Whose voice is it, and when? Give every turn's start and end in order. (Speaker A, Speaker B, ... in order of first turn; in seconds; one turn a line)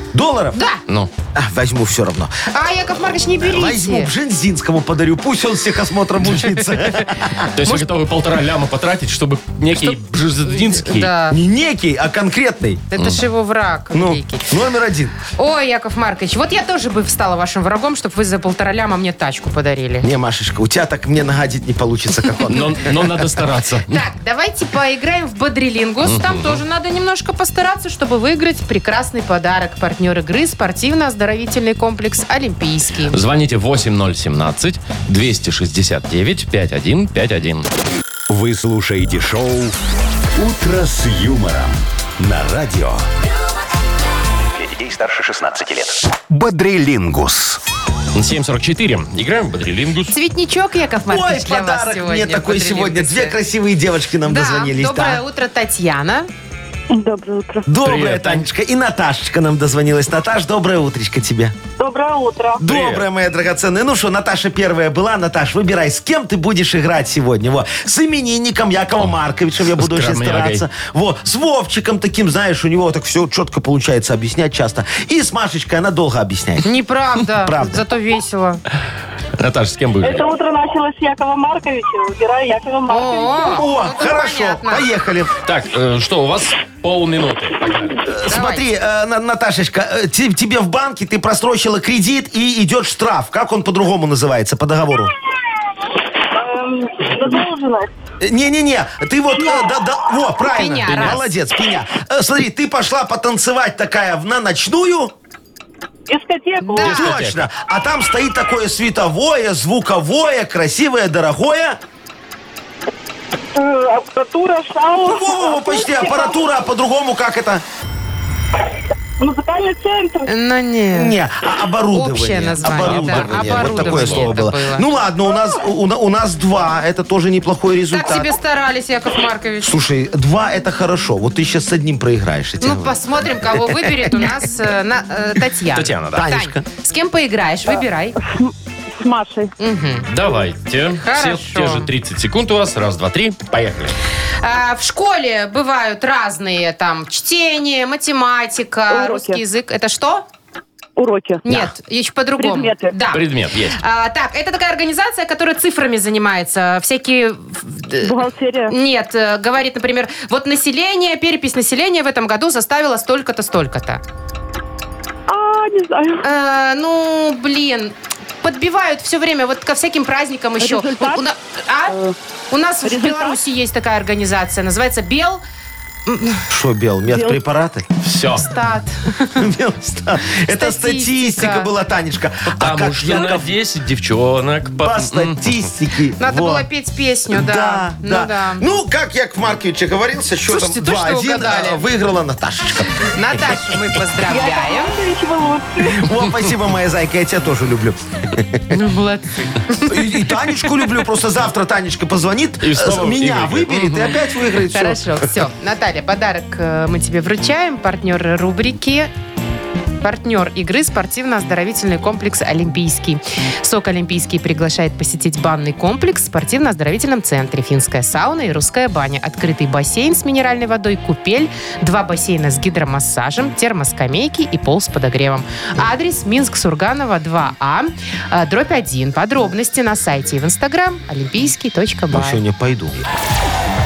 Speaker A: 0.1-0.6
Speaker B: 0.5-0.8
Speaker A: 1.4-2.5
Speaker B: 2.5-4.1
Speaker A: 3.4-7.5
Speaker C: 7.5-11.1
Speaker B: 9.8-11.4
Speaker A: 11.3-12.9
Speaker B: 12.9-14.5
Speaker A: 13.9-15.1
Speaker B: 15.3-20.1
Speaker A: 20.0-23.2
Speaker C: 22.5-24.0
Speaker B: 23.9-33.2
Speaker C: 26.0-26.6
Speaker C: 33.1-37.7
Speaker D: 38.3-39.8
Speaker D: 40.4-43.0
Speaker D: 44.5-47.6
Speaker C: 48.1-50.1
Speaker B: 50.1-53.4
Speaker A: 51.1-55.2
Speaker B: 54.2-56.3
Speaker E: 56.9-57.6
Speaker A: 57.6-61.5
Speaker C: 57.8-58.5
Speaker E: 61.8-62.6
Speaker A: 62.6-76.7
Speaker C: 62.6-63.0
Speaker C: 69.7-70.7
Speaker B: 76.6-78.6
Speaker A: 77.3-77.8
Speaker C: 79.4-80.2
Speaker E: 80.0-83.6
Speaker B: 82.9-84.8
Speaker A: 83.4-85.3
Speaker C: 85.4-88.0
Speaker A: 88.0-95.1
Speaker B: 88.3-88.7
Speaker E: 96.3-97.9
Speaker A: 98.2-105.1
Speaker B: 100.4-101.3
Speaker E: 106.1-106.9
Speaker B: 106.6-107.2
Speaker C: 106.8-107.4
Speaker A: 106.8-111.8
Speaker E: 113.5-116.4
Speaker A: 115.0-117.6
Speaker E: 119.2-120.3
Speaker B: 120.3-121.2
Speaker A: 120.9-128.3
Speaker B: 121.9-124.9
Speaker C: 122.6-124.4
Speaker B: 127.9-129.8
Speaker A: 129.6-134.3
Speaker B: 132.6-138.1
Speaker C: 135.7-136.3
Speaker A: 136.1-136.7
Speaker E: 138.2-139.5
Speaker B: 139.6-140.1
Speaker C: 140.1-143.9
Speaker B: 141.0-141.9
Speaker B: 144.4-150.2
Speaker E: 148.9-149.4
Speaker E: 151.0-151.5
Speaker B: 151.4-164.0
Speaker E: 152.4-153.0
Speaker C: 153.1-153.8
Speaker E: 158.0-158.7
Speaker E: 165.3-166.2
Speaker B: 166.2-172.0
Speaker E: 170.6-171.2
Speaker B: 172.5-175.4
Speaker E: 172.8-173.4
Speaker B: 176.1-176.4
Speaker A: 176.5-177.9
Speaker E: 177.1-177.4
Speaker C: 178.0-178.4
Speaker B: 178.3-179.4
Speaker A: 179.4-183.5
Speaker B: 180.5-181.7
Speaker C: 182.4-185.4
Speaker A: 184.8-186.7
Speaker B: 186.2-188.7
Speaker A: 187.3-193.6
Speaker B: 190.5-191.8
Speaker B: 193.0-194.9
Speaker E: 194.3-196.1
Speaker A: 195.9-198.7
Speaker B: 198.7-200.8
Speaker A: 199.9-205.3
Speaker C: 202.6-204.1
Speaker B: 204.7-209.1
Speaker B: 210.0-232.4
Speaker A: 232.1-233.0